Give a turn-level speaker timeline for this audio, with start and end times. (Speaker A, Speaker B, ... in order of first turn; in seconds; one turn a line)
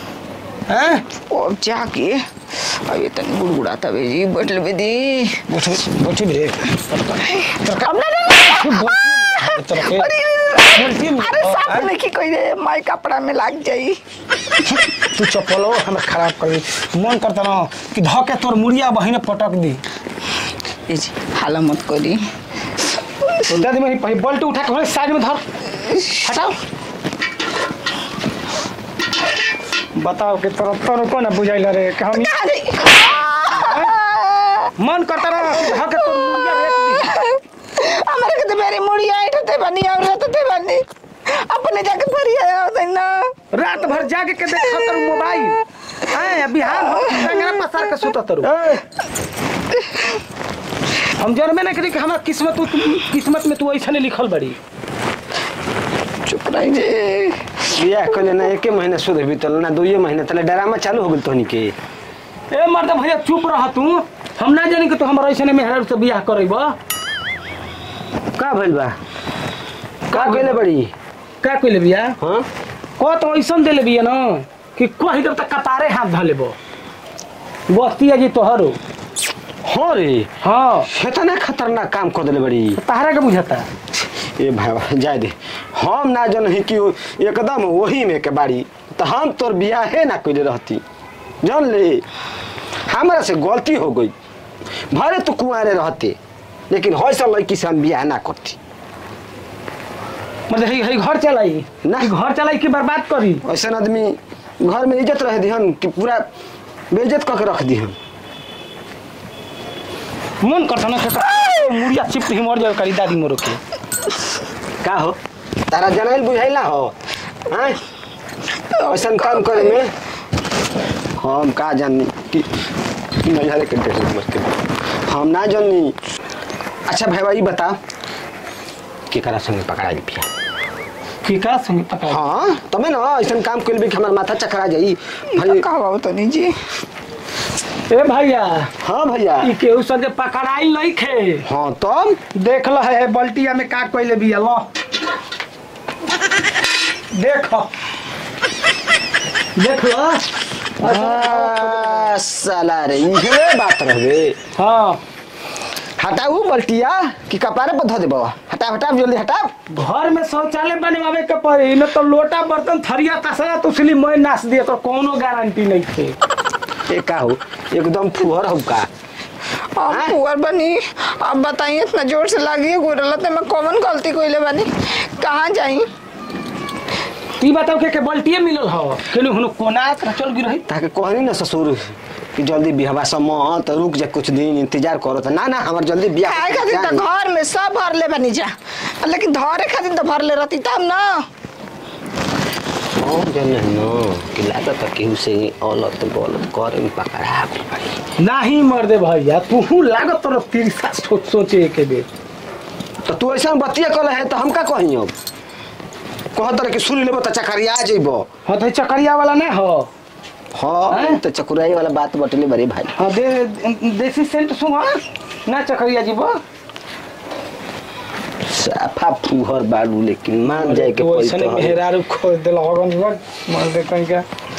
Speaker A: 0.7-1.1
Speaker B: 1.3-5.4
Speaker A: 5.5-11.9
Speaker B: 7.3-14.0
Speaker A: 14.7-19.8
Speaker B: 20.9-22.2
Speaker A: 23.5-25.4
Speaker A: 26.0-26.6
Speaker A: 30.0-32.3
Speaker B: 32.1-34.7
Speaker A: 33.5-33.9
Speaker A: 34.8-37.2
Speaker B: 35.6-43.4
Speaker A: 43.5-48.5
Speaker B: 44.7-45.1
Speaker B: 46.9-47.2
Speaker C: 48.4-48.8
Speaker A: 51.2-54.6
Speaker B: 56.2-57.7
Speaker C: 57.7-61.8
Speaker A: 62.5-66.8
Speaker C: 68.4-69.0
Speaker C: 70.1-70.9
Speaker A: 70.1-70.6
Speaker A: 71.4-72.2
Speaker C: 72.2-72.5
Speaker A: 73.0-76.6
Speaker A: 77.7-78.8
Speaker C: 79.7-80.3
Speaker A: 80.4-80.9
Speaker C: 80.8-82.8
Speaker A: 82.8-83.7
Speaker C: 84.4-90.8
Speaker C: 91.4-92.0
Speaker C: 92.9-94.1
Speaker C: 94.9-96.2
Speaker C: 96.7-98.6
Speaker A: 100.5-103.4
Speaker C: 101.8-102.1
Speaker C: 103.4-106.2
Speaker C: 106.9-108.0
Speaker A: 110.4-113.6
Speaker C: 114.8-115.2
Speaker C: 115.7-116.9
Speaker C: 117.5-117.8
Speaker B: 118.7-119.8
Speaker C: 118.9-119.9
Speaker C: 121.2-122.5
Speaker C: 123.2-124.5
Speaker C: 125.1-126.0
Speaker C: 126.9-127.8
Speaker C: 129.1-130.3
Speaker A: 131.2-132.2
Speaker C: 132.1-135.7
Speaker B: 135.3-136.6
Speaker A: 137.9-138.7
Speaker C: 138.8-139.6
Speaker A: 139.4-141.4
Speaker C: 141.4-142.2
Speaker A: 142.3-144.7
Speaker A: 147.1-147.7
Speaker A: 149.6-152.2
Speaker C: 150.8-154.4
Speaker A: 154.6-155.0
Speaker C: 156.0-159.5
Speaker A: 159.7-166.2
Speaker C: 166.9-168.9
Speaker B: 169.8-175.9
Speaker C: 169.9-170.2
Speaker A: 177.4-180.7
Speaker C: 180.7-187.1
Speaker B: 186.2-188.5
Speaker B: 189.0-191.3
Speaker C: 193.0-198.0
Speaker A: 198.2-202.1
Speaker C: 203.1-205.2
Speaker C: 206.3-208.3
Speaker A: 208.5-209.9
Speaker C: 210.6-213.0
Speaker A: 210.9-211.2
Speaker A: 213.0-216.4
Speaker C: 218.4-221.8
Speaker A: 220.4-224.3